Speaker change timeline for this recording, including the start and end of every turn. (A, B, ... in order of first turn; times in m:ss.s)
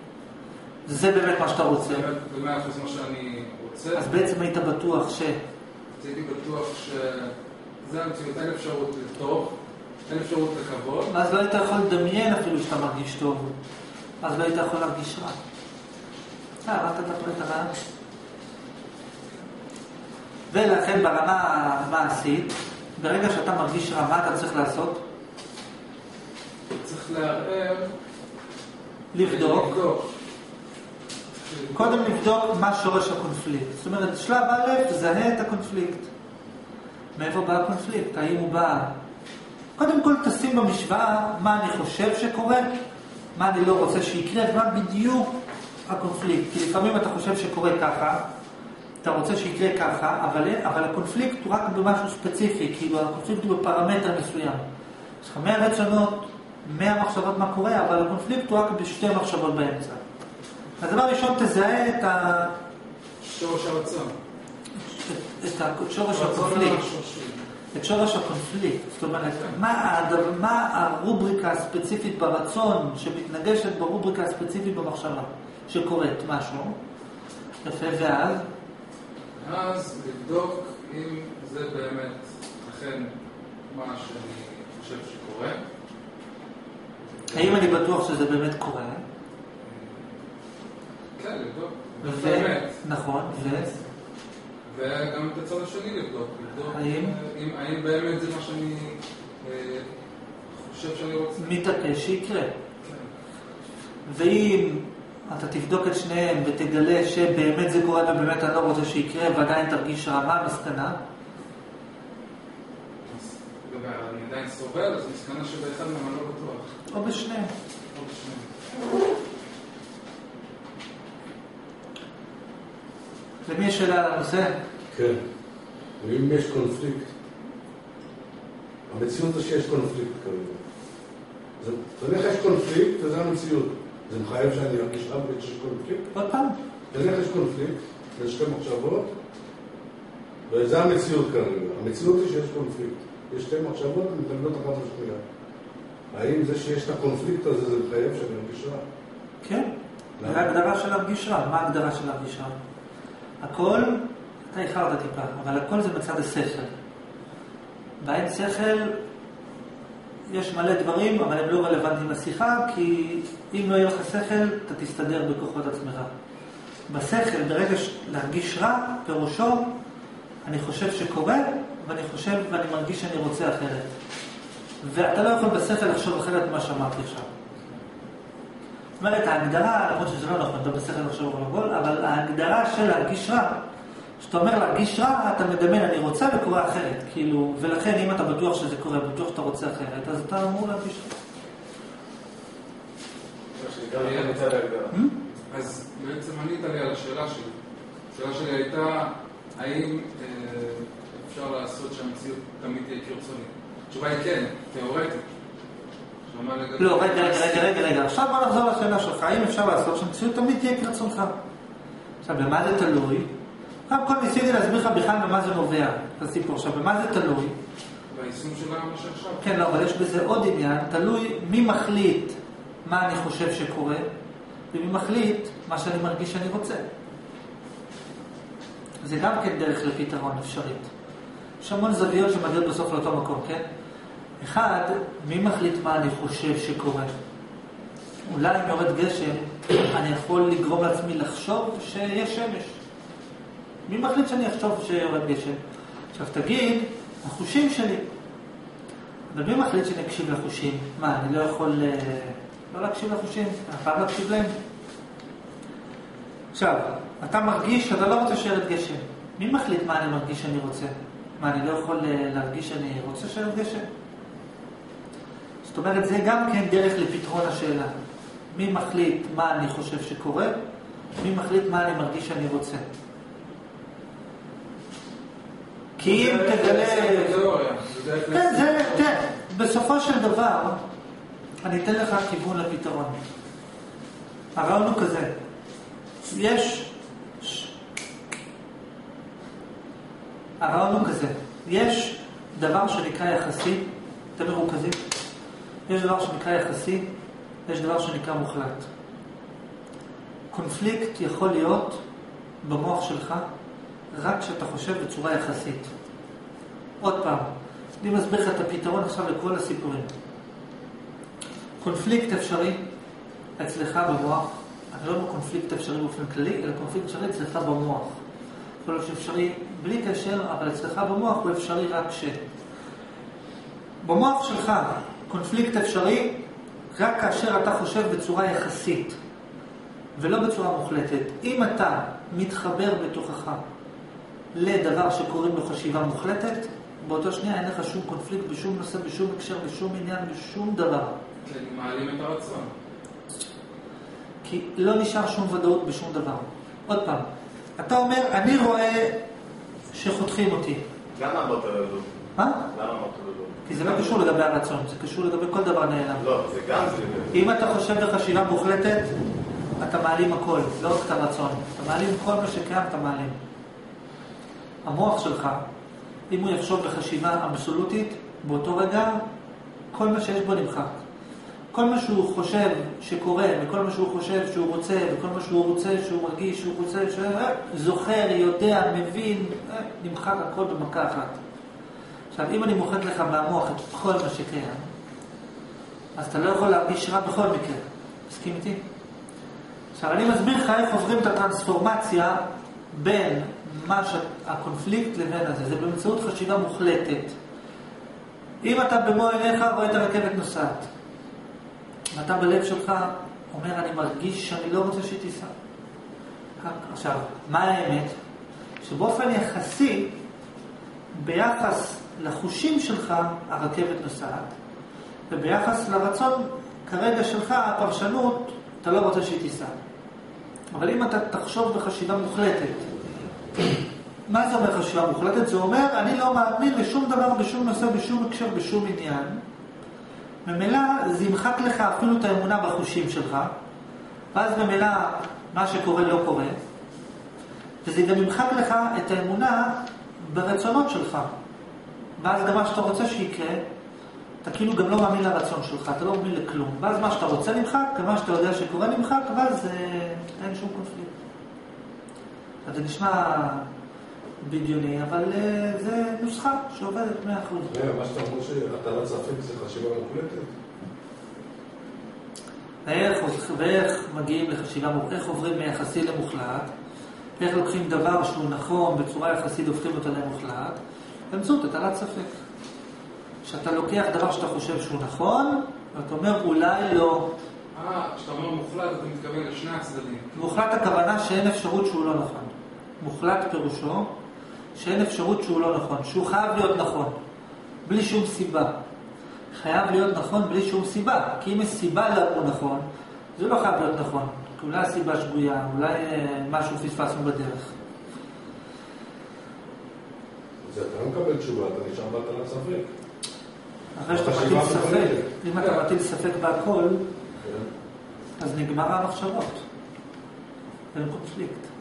0:00.9-0:02.1 A
0:01.8-0:04.2 B
0:04.0-0:05.4 A
0:06.0-0:09.6 B
0:10.1-0:11.1 B
0:11.1-0:13.5 A
0:14.2-0:15.4 A
0:16.6-0:17.8 A
0:20.5-0:25.0 A
0:26.8-0:27.9 B
0:29.1-0:29.8 A
0:29.2-0:30.1 B
0:31.4-0:32.2 B
0:31.7-0:36.1 A
0:37.2-0:39.0 A
0:39.8-0:42.7 A
0:43.4-0:48.3 A
0:49.0-0:54.6 A
0:55.2-1:00.0 A
1:00.8-1:02.6 A
1:03.2-1:04.2 B
1:04.9-1:06.8 A
1:06.1-1:07.4 B
1:07.7-1:16.8 A
1:17.6-1:18.5 A
1:19.4-1:23.1 B
1:23.7-1:25.6 B
1:27.1-1:27.7 B
1:27.3-1:29.0 A
1:29.6-1:30.1 B
1:31.2-1:32.8 B
1:32.0-1:33.7 A
1:33.4-1:33.8 B
1:34.7-1:39.9 B
1:36.7-1:37.1 A
1:40.5-1:41.4 B
1:41.4-1:42.5 A
1:42.8-1:43.1 B
1:44.1-1:51.0 A
1:53.0-1:56.7 B
1:56.9-1:57.5 A
1:57.9-1:58.5 B
2:03.5-2:04.6 A
2:04.9-2:05.2 C
2:06.0-2:07.1 C
2:08.9-2:10.6 C
2:11.6-2:16.1 C
2:16.1-2:16.6 A
2:16.9-2:19.1 C
2:20.5-2:25.2 C
2:26.1-2:28.8 C
2:29.4-2:29.7 A
2:30.2-2:30.5 C
2:30.2-2:32.6 A
2:33.4-2:36.7 A
2:38.0-2:39.0 A
2:40.3-2:46.1 A
2:46.9-2:49.8 A
2:50.4-2:54.0 A
2:54.8-2:57.3 A
2:59.0-3:03.6 A
3:04.2-3:11.1 A
3:13.6-3:14.9 D
3:14.0-3:14.4 B
3:14.9-3:15.2 A
3:15.5-3:17.6 B
3:18.1-3:25.3 B
3:26.3-3:27.7 B
3:26.8-3:31.4 A
3:32.2-3:33.3 A
3:33.9-3:37.6 A
3:38.1-3:39.6 B
3:39.4-3:44.1 A
3:44.7-3:46.9 A
3:49.0-3:50.9 A
3:51.6-3:53.7 A
3:54.4-3:57.2 A
3:58.3-4:02.8 A
4:03.9-4:05.6 A
4:06.1-4:08.1 A
4:09.3-4:14.5 A
4:16.5-4:23.9 A
4:25.6-4:27.9 A
4:28.5-4:30.6 A
4:31.2-4:32.9 A
4:36.0-4:37.3 A
4:36.0-4:39.2 B
4:38.3-4:40.8 A
4:41.6-4:43.2 A
4:44.6-4:45.3 A
4:46.2-4:47.7 A
4:50.6-4:55.0 A
4:55.9-4:57.1 A
4:57.7-4:58.9 A
5:00.5-5:02.0 A
5:02.6-5:03.5 A
5:04.1-5:05.9 A
5:07.0-5:07.5 A
5:08.0-5:10.1 A
5:11.8-5:12.8 A
5:13.6-5:18.2 A
5:18.8-5:22.4 A
5:24.0-5:29.2 A
5:30.2-5:33.6 A
5:34.5-5:41.2 A
5:41.4-5:42.7 B
5:44.4-5:49.2 A
5:49.9-5:50.8 A
5:51.2-5:52.2 D
5:52.4-5:52.7 A
5:52.7-5:54.2 D
5:53.7-5:56.2 A
5:56.2-5:57.3 D
5:57.3-5:59.2 A
5:59.8-6:03.4 A
6:04.8-6:05.6 A
6:06.3-6:09.2 A
6:09.9-6:11.0 A
6:11.7-6:21.4 A
6:22.3-6:24.9 A
6:26.2-6:28.8 A
6:30.0-6:37.4 A
6:38.6-6:40.9 A
6:42.1-6:45.5 A
6:46.6-6:48.2 A
6:48.8-6:50.2 A
6:51.1-6:54.5 A
6:55.3-6:59.7 A
7:00.7-7:02.9 A
7:04.3-7:09.4 A
7:10.4-7:13.5 A
7:14.3-7:16.6 A
7:17.8-7:21.3 A
7:22.2-7:23.7 A
7:24.4-7:31.1 A
7:32.6-7:33.7 A
7:34.4-7:37.9 A
7:37.7-7:40.6 C
7:42.9-7:46.7 A
7:47.4-7:50.8 A
7:51.3-7:52.4 A
7:53.4-7:57.4 A
7:57.7-8:00.4 B
8:00.4-8:04.1 A
8:04.8-8:07.2 A
8:07.8-8:08.8 A
8:09.5-8:17.7 A
8:20.6-8:22.9 C
8:24.0-8:27.1 A
8:24.1-8:25.3 C
8:27.4-8:27.7 C
8:28.4-8:29.6 A
8:30.9-8:31.7 A